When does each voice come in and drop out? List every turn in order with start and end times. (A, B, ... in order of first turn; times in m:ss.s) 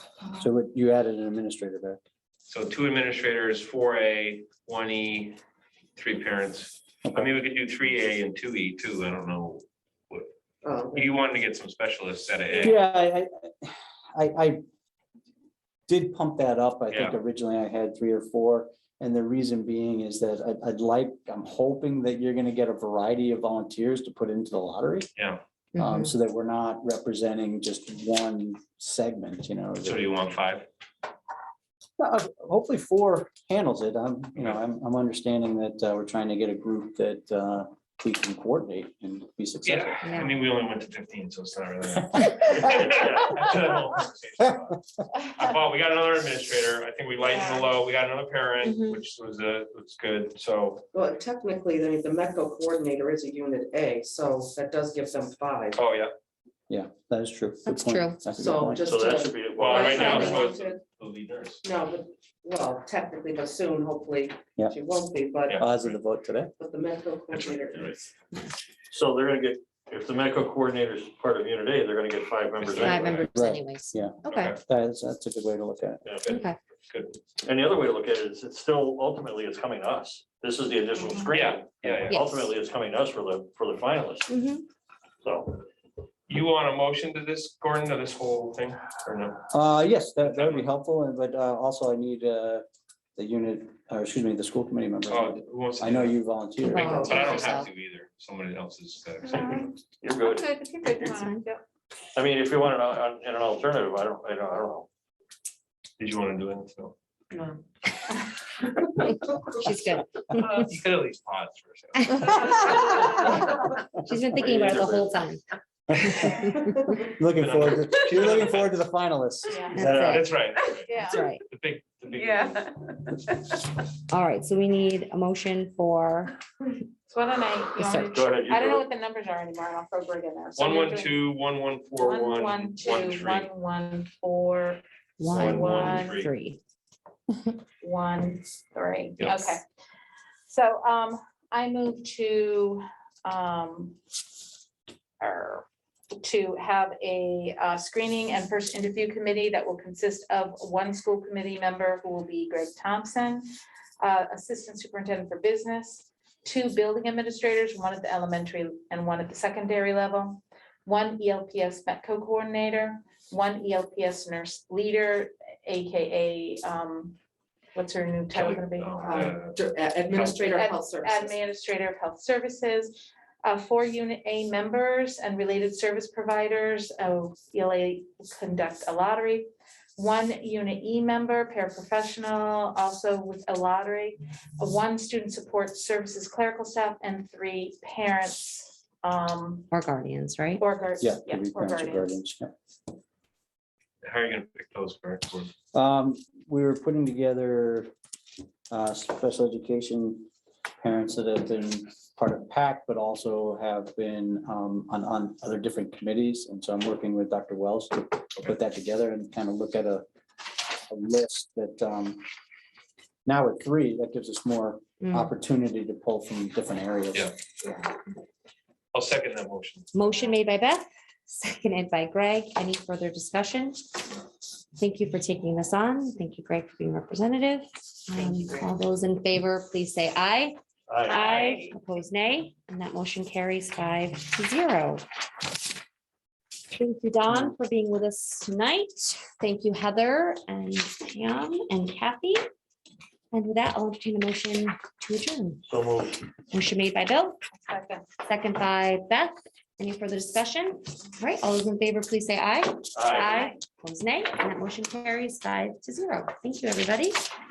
0:00.3-0:02.0 A
0:02.5-0:05.4 B
0:06.0-0:10.3 B
0:10.6-0:11.1 C
0:10.9-0:12.8 B
0:12.6-0:14.6 A
0:15.9-0:25.1 A
0:16.9-0:17.2 B
0:25.2-0:25.4 B
0:25.7-0:26.1 D
0:25.8-0:30.0 A
0:29.8-0:30.7 B
0:32.0-0:40.1 A
0:39.6-0:50.9 B
0:40.0-0:40.3 D
0:42.6-0:43.5 E
0:47.2-0:47.6 F
0:48.6-0:49.0 D
0:50.9-0:55.8 C
0:55.7-0:56.1 B
0:56.7-0:58.9 A
0:57.6-0:58.2 D
0:58.3-1:00.8 C
0:58.8-1:00.3 E
0:59.6-1:01.6 B
0:59.7-1:00.5 D
1:01.6-1:05.6 C
1:05.5-1:06.0 B
1:05.6-1:06.5 A
1:06.6-1:08.1 C
1:07.3-1:08.0 B
1:08.9-1:13.2 E
1:12.6-1:13.3 B
1:12.8-1:14.5 D
1:13.3-1:16.0 A
1:14.3-1:14.6 B
1:16.0-1:16.3 E
1:16.2-1:17.2 B
1:16.3-1:16.6 D
1:17.4-1:24.3 E
1:21.3-1:22.2 B
1:22.1-1:22.5 D
1:24.3-1:24.6 D
1:25.2-1:25.6 E
1:26.3-1:29.4 B
1:29.5-1:32.6 A
1:30.2-1:30.6 B
1:33.2-1:37.3 A
1:35.1-1:36.2 B
1:36.6-1:37.7 D
1:36.7-1:39.5 B
1:36.8-1:37.2 C
1:39.3-1:39.7 F
1:39.4-1:41.3 E
1:40.2-1:41.6 F
1:42.1-1:44.9 E
1:46.0-1:46.9 B
1:49.0-1:50.7 D
1:50.3-1:52.9 B
1:52.1-1:55.4 D
1:54.3-1:55.1 E
1:55.9-1:59.8 A
1:56.0-1:56.8 D
1:57.3-1:58.7 B
1:59.5-1:59.8 F
1:59.7-2:00.3 D
1:59.7-2:00.2 E
1:59.9-2:02.7 B
2:00.9-2:01.2 F
2:01.0-2:01.4 D
2:04.1-2:06.4 D
2:07.1-2:11.2 F
2:07.8-2:08.1 D
2:08.1-2:08.9 E
2:10.6-2:13.5 B
2:12.0-2:16.2 F
2:15.2-2:16.6 D
2:15.3-2:16.3 B
2:17.8-2:19.6 F
2:19.2-2:19.6 B
2:20.5-2:24.0 F
2:25.2-2:25.6 F
2:26.2-2:33.5 F
2:34.0-2:47.2 F
2:47.7-2:49.3 F
2:48.3-2:49.6 B
2:49.0-2:51.4 C
2:50.5-3:09.7 F
3:09.7-3:10.6 D
3:10.6-3:12.2 F
3:11.0-3:12.5 A
3:14.0-3:15.5 B
3:15.7-3:17.9 A
3:18.7-3:20.3 A
3:20.8-3:32.2 A
3:33.2-3:37.3 A
3:35.0-3:35.3 D
3:37.1-3:37.7 B
3:38.9-3:39.9 B
3:39.9-3:44.2 D
3:44.8-3:55.0 D
3:50.9-3:51.6 E
3:56.7-4:02.4 D
4:03.3-4:05.6 D
4:05.6-4:06.3 E
4:06.5-4:07.4 D
4:07.5-4:08.1 F
4:08.2-4:17.3 D
4:12.9-4:13.3 E
4:13.2-4:13.5 F